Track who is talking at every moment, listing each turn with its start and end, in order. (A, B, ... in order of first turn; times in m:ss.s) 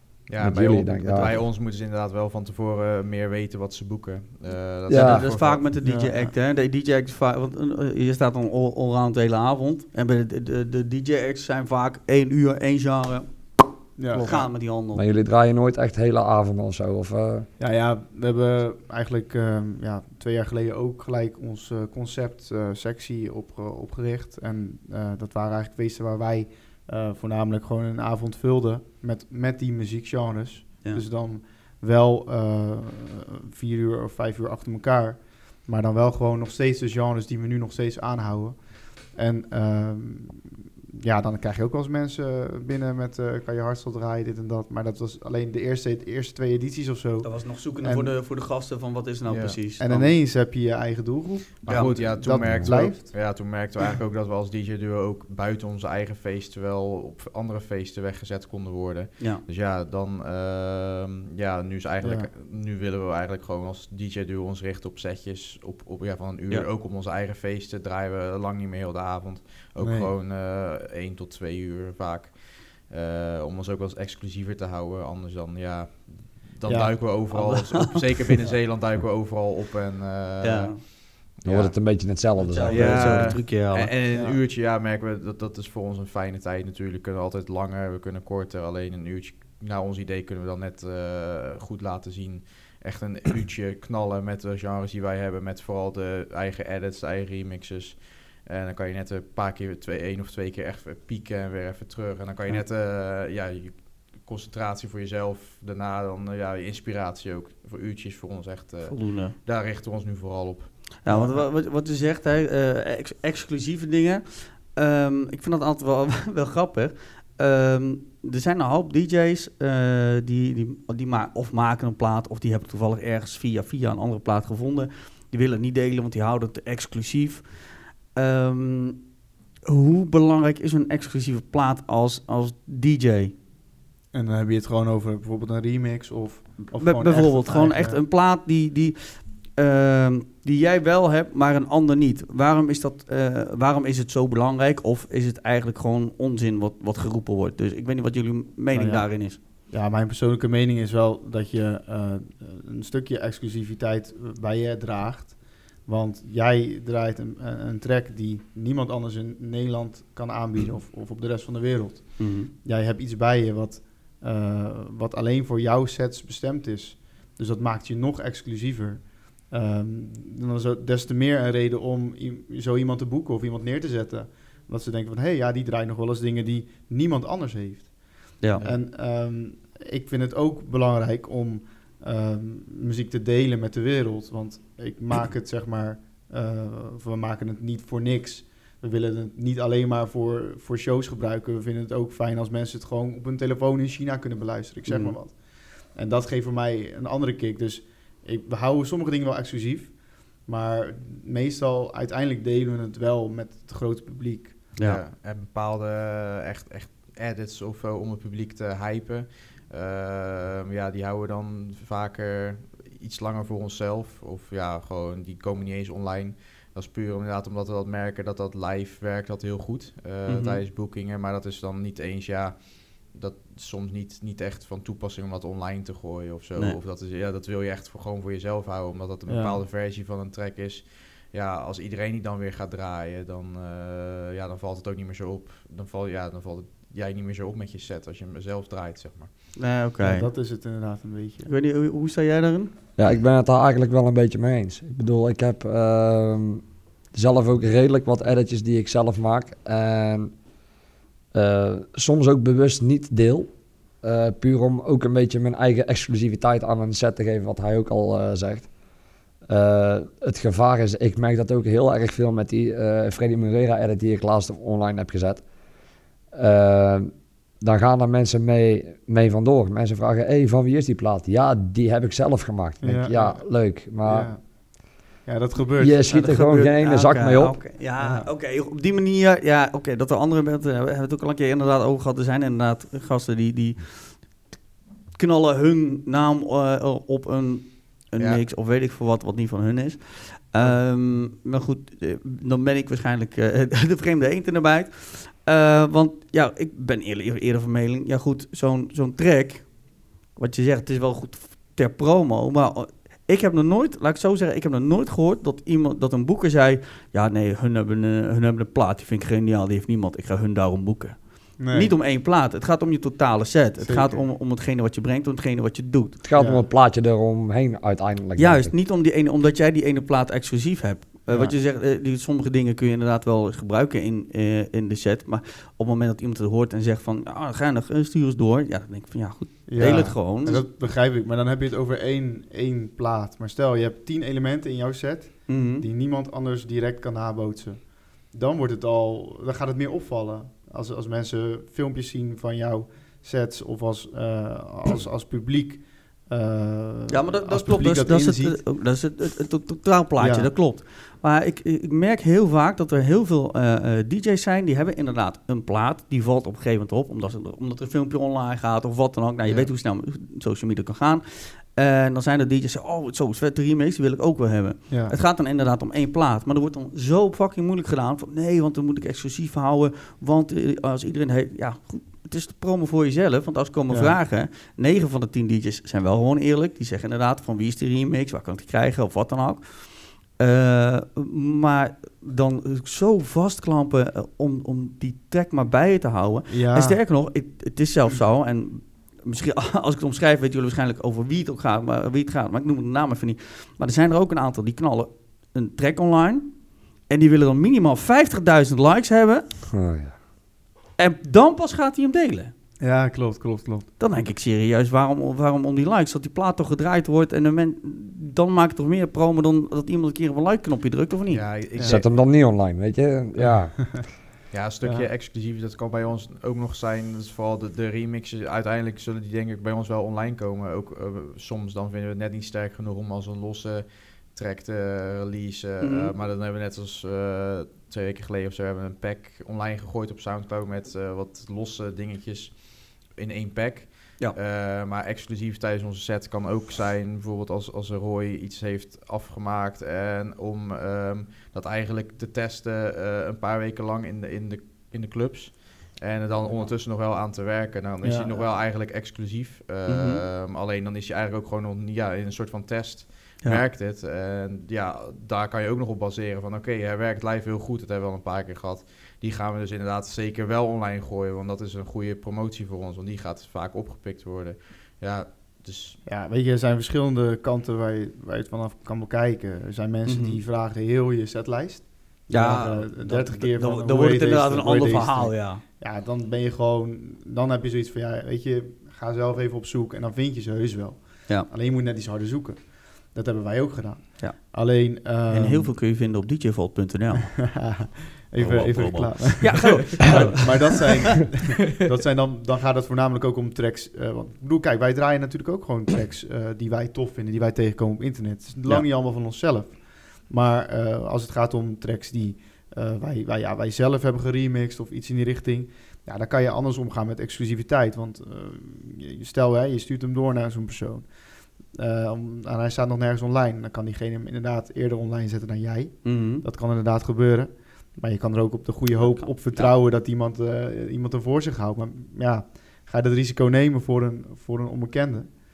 0:00.3-0:05.6 A
0:00.4-0:01.4 B
0:04.9-0:05.3 B
0:04.9-0:15.0 C
0:05.8-0:06.3 D
0:14.0-0:14.4 D
0:14.9-0:17.5 B
0:17.6-0:48.1 D
0:47.2-0:50.2 C
0:49.3-0:49.6 A
0:49.8-0:53.4 D
0:51.6-1:22.0 A
0:51.7-0:52.2 C
0:52.4-0:52.7 B
1:02.0-1:02.3 D
1:09.8-1:10.1 D
1:16.6-1:17.1 D
1:17.3-1:18.2 C
1:20.4-1:20.8 C
1:21.4-1:23.4 B
1:22.4-1:23.9 C
1:22.7-1:51.4 A
1:24.1-1:24.4 D
1:48.9-1:49.4 C
1:51.0-2:13.3 C
2:14.1-2:18.0 D
2:16.7-2:29.4 C
2:28.7-3:24.7 D
2:42.2-2:42.5 C
3:14.9-3:15.2 C
3:24.8-3:25.0 C
3:24.8-3:59.5 A
3:40.3-3:40.6 C
3:49.3-3:49.6 D
3:59.6-4:00.3 C
4:00.0-4:01.5 D
4:01.5-4:02.7 C
4:03.0-4:10.4 B
4:11.3-4:18.7 B
4:19.5-4:25.5 B
4:26.3-4:34.4 B
4:32.8-4:36.1 D
4:35.8-4:37.8 B
4:36.1-4:44.6 C
4:38.0-4:38.3 D
4:45.2-5:16.2 C
4:48.2-4:48.4 A
5:11.6-5:11.9 D
5:13.8-5:14.3 D
5:16.2-5:18.7 B
5:16.4-5:16.6 D
5:18.4-5:30.7 C
5:21.3-5:21.5 D
5:29.7-5:48.7 D
5:35.5-5:35.9 C
5:47.1-6:39.5 C
5:50.2-5:50.5 D
5:59.4-5:59.7 D
6:13.9-6:14.2 D
6:26.5-6:27.0 D
6:39.7-6:40.2 B
6:41.0-6:42.5 C
6:42.8-6:43.9 D
6:44.0-6:51.5 C
6:51.3-6:52.0 A
6:51.8-6:52.0 D
6:51.8-6:54.1 B
6:53.4-6:54.0 D
6:54.5-7:46.0 A
7:05.8-7:06.1 C
7:28.0-7:28.5 D
7:29.9-7:30.2 C
7:46.0-8:05.7 D
7:50.1-7:50.4 C
7:52.3-7:55.6 C
8:04.2-8:07.6 C
8:07.4-8:45.3 D
8:08.4-8:10.9 C
8:36.0-8:36.4 C
8:39.0-8:39.8 C